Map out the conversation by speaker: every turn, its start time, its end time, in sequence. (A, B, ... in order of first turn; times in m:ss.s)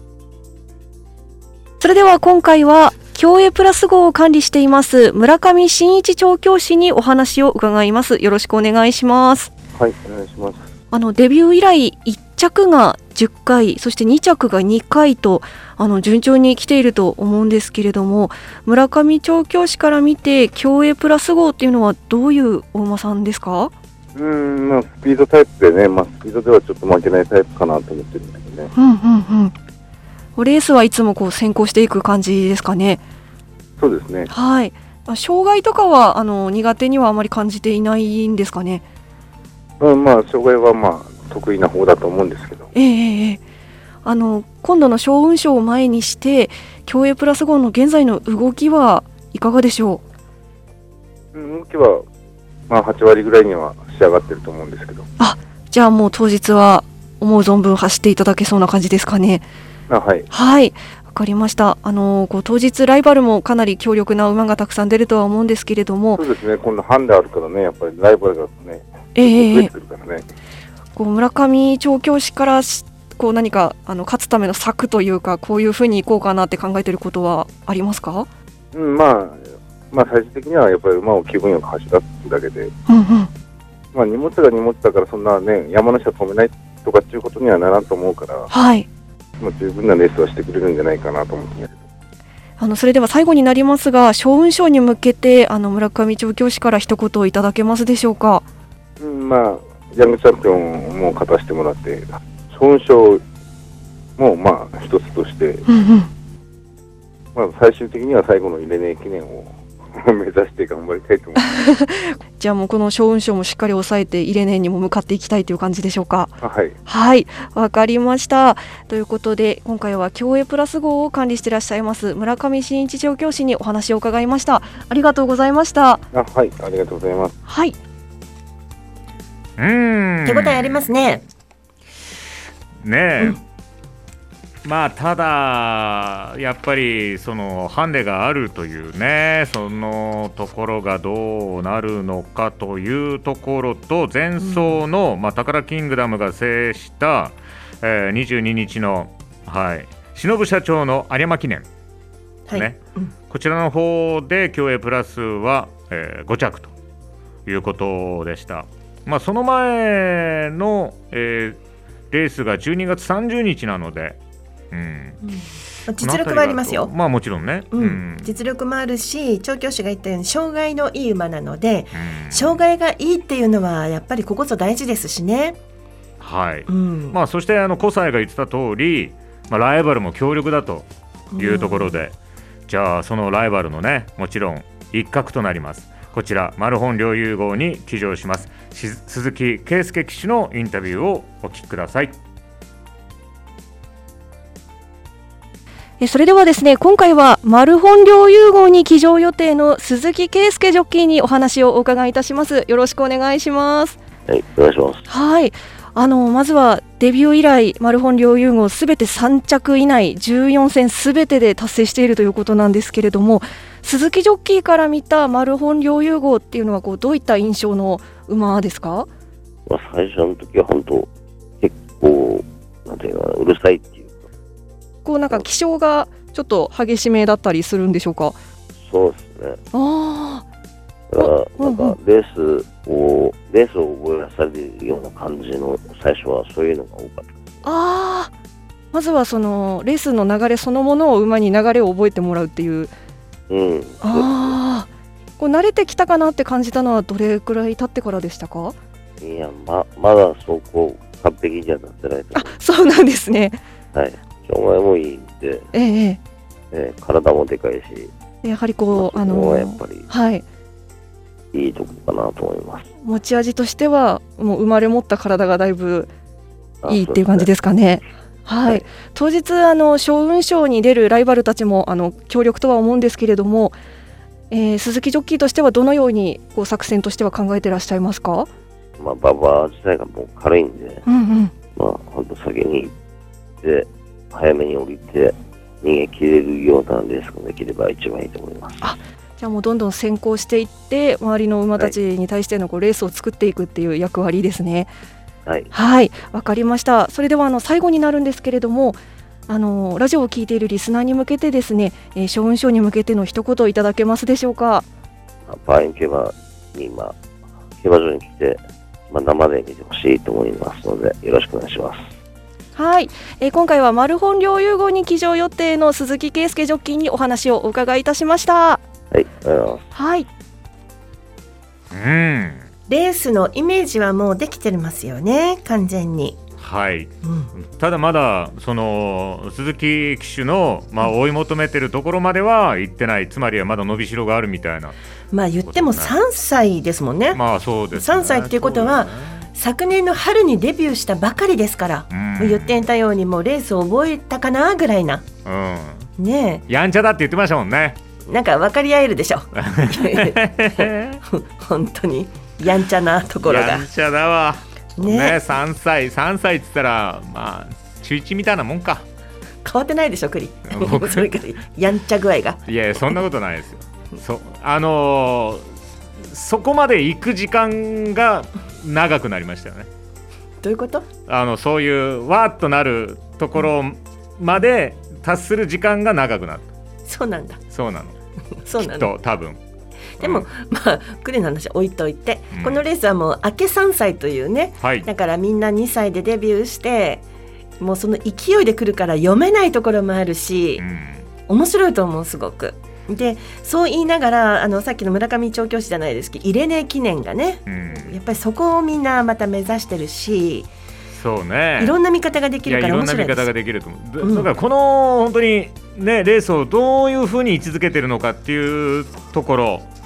0:01.8-0:09.5 A
0:09.8-0:10.6 B
0:10.9-0:23.7 A
0:24.1-0:28.7 B
0:28.7-0:29.5 A
0:30.4-0:33.0 A
0:33.8-0:34.3 B
0:34.3-0:38.8 A
0:39.8-0:42.7 B
0:42.7-0:43.4 A
0:44.0-0:50.0 A
0:51.3-0:52.0 B
0:52.7-0:55.1 B
0:55.2-0:59.4 A
0:59.9-1:00.3 B
1:00.3-1:06.2 A
1:06.2-1:10.2 B
1:09.2-1:09.7 A
1:11.0-1:18.3 A
1:18.7-1:22.7 B
1:22.9-1:23.3 A
1:23.9-1:28.5 B
1:28.5-1:28.9 A
1:29.4-1:31.7 B
1:32.6-1:38.4 A
1:39.0-1:43.2 B
1:44.2-1:45.6 B
1:45.7-1:46.1 A
1:47.3-1:51.4 B
1:51.4-2:06.0 A
1:56.4-1:56.8 B
2:06.1-2:07.3 B
2:07.5-2:07.8 A
2:09.6-2:10.9 C
2:10.2-2:11.2 D
2:12.8-2:13.4 C
2:14.6-2:31.6 C
2:24.4-2:24.8 D
2:32.5-2:33.1 D
2:33.3-2:36.7 C
2:37.4-2:41.6 C
2:42.1-2:44.2 C
2:44.7-2:45.2 C
2:45.3-2:46.9 D
2:46.0-2:48.3 C
2:47.7-2:55.6 D
2:51.9-2:52.6 C
2:56.2-3:00.9 C
2:56.7-2:57.2 D
3:01.3-3:02.0 D
3:01.4-3:02.1 C
3:02.7-3:12.1 C
3:16.0-3:24.0 A
3:24.3-3:25.0 E
3:25.1-3:39.1 A
3:39.7-3:41.1 E
3:41.6-3:44.2 E
3:45.0-3:48.4 A
3:48.8-3:49.6 E
3:49.7-3:50.4 A
3:51.1-3:57.4 E
3:51.2-3:51.9 A
3:57.6-3:58.3 A
3:58.9-4:02.9 A
4:03.5-4:04.6 E
4:04.0-4:08.8 A
4:09.2-4:12.5 E
4:12.3-4:13.6 A
4:13.9-4:15.7 E
4:15.7-4:16.2 A
4:16.7-4:18.1 E
4:18.4-4:20.4 A
4:18.9-4:20.0 E
4:21.5-4:22.8 E
4:23.0-4:26.1 A
4:26.8-4:27.5 E
4:26.9-4:33.8 A
4:34.5-4:38.5 A
4:39.0-4:41.0 E
4:41.1-4:41.5 A
4:41.8-4:42.9 E
4:43.6-4:49.0 E
4:48.8-4:54.9 A
4:55.4-4:55.7 E
4:55.7-5:04.8 A
5:05.5-5:07.2 E
5:07.8-5:12.0 E
5:12.8-5:18.8 A
5:19.1-5:19.8 E
5:19.9-5:20.3 A
5:21.9-5:22.7 C
5:22.9-5:26.4 D
5:26.6-5:34.9 C
5:27.2-5:27.5 D
5:35.3-5:37.4 D
5:35.6-5:36.1 C
5:37.3-5:39.5 C
5:37.9-5:45.2 D
5:42.1-5:42.9 C
5:45.4-5:46.1 C
5:46.2-5:46.6 D
5:46.7-5:48.0 C
5:48.3-5:53.8 D
5:49.6-5:51.2 C
5:53.4-5:59.0 C
5:55.0-5:55.4 D
5:59.6-6:02.6 D
6:00.7-6:01.3 C
6:02.7-6:05.6 C
6:06.3-6:09.9 C
6:10.6-6:11.1 D
6:11.3-6:16.6 C
6:17.1-6:17.6 D
6:17.7-6:18.1 C
6:18.6-6:19.1 D
6:18.8-6:19.6 C
6:20.2-6:20.4 C
6:20.2-6:27.2 D
6:22.5-6:22.8 C
6:24.8-6:25.1 C
6:27.8-6:30.8 D
6:30.8-6:31.2 C
6:31.5-6:40.7 D
6:37.7-6:38.1 C
6:41.2-6:42.0 C
6:41.8-6:43.5 D
6:42.6-6:49.8 C
6:44.2-6:44.5 D